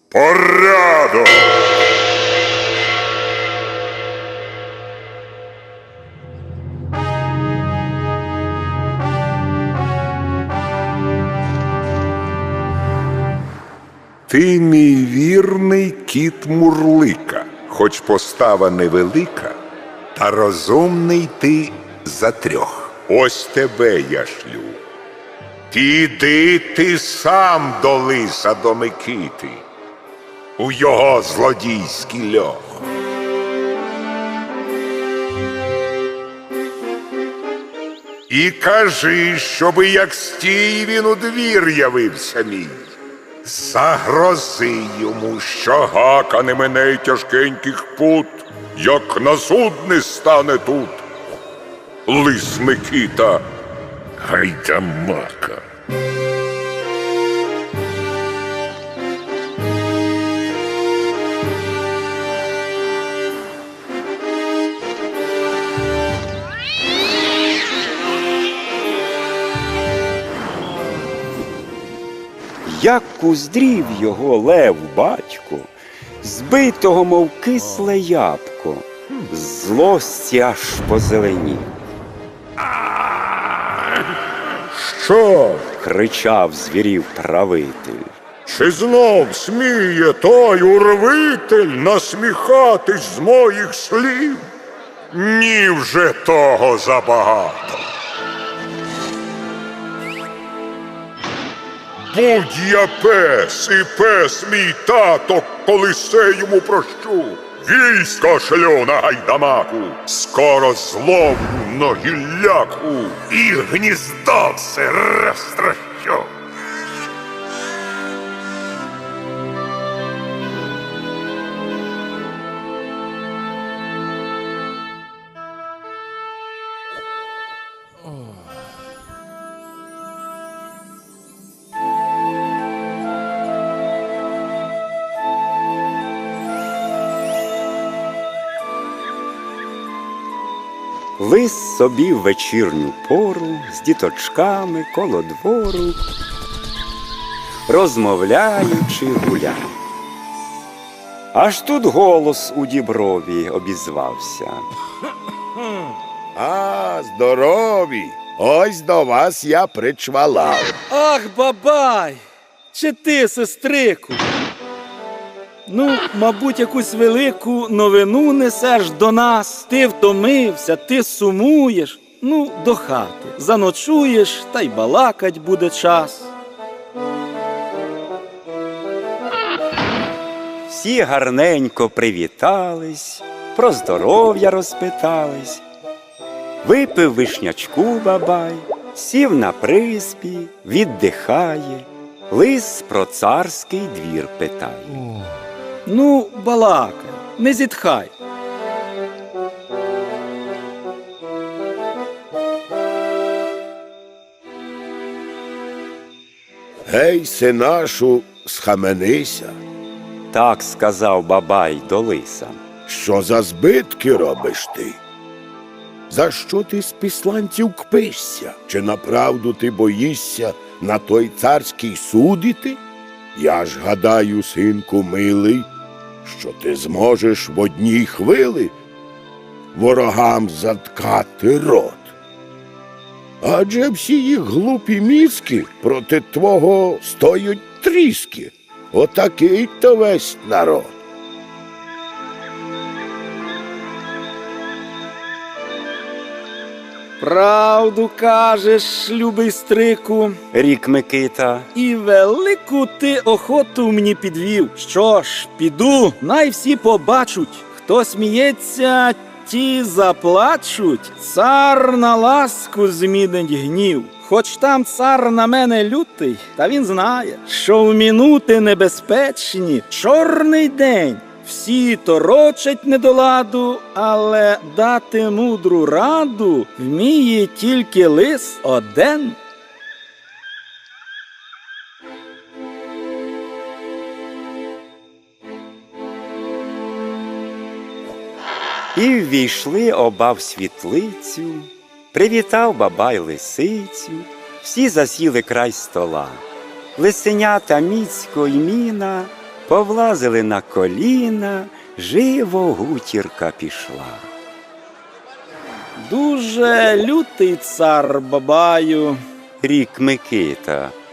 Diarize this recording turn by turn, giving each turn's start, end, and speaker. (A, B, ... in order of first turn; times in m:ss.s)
0:00.1-0:01.5 A
0:14.3-0:19.1 A
0:14.3-0:19.5 B
0:20.2-0:24.8 A
0:20.2-0:24.7 B
0:25.7-0:29.6 B
0:26.3-0:28.4 A
0:30.6-0:32.6 B
0:31.3-0:32.1 A
0:38.3-0:42.7 B
0:38.6-0:42.8 A
0:43.4-0:51.0 A
0:52.1-0:53.4 A
0:54.2-0:55.6 A
0:54.4-0:55.4 B
1:12.6-1:15.7 C
1:16.2-1:21.7 C
1:24.7-1:25.6 A
1:25.8-1:28.1 C
1:28.5-1:34.4 A
1:35.1-1:37.8 A
1:42.1-1:56.2 A
1:53.4-1:54.6 B
2:21.2-2:26.0 C
2:27.7-2:29.7 C
2:31.3-2:34.6 C
2:36.3-2:40.8 B
2:40.9-2:44.2 D
2:45.6-2:56.3 D
3:00.7-3:05.6 C
3:06.6-3:15.1 C
3:15.8-3:18.1 D
3:26.9-3:29.6 B
3:30.3-3:32.6 C
3:32.9-3:35.0 B
3:36.1-3:42.8 B
3:43.3-3:45.7 B
3:46.2-3:48.7 B
3:49.7-3:52.1 B
3:53.4-4:00.9 B
4:07.2-4:10.4 D
4:10.5-4:11.7 C
4:11.7-4:39.4 D
4:48.9-4:56.4 C
4:57.0-5:04.2 C
5:06.0-5:09.2 D
5:09.6-5:10.9 C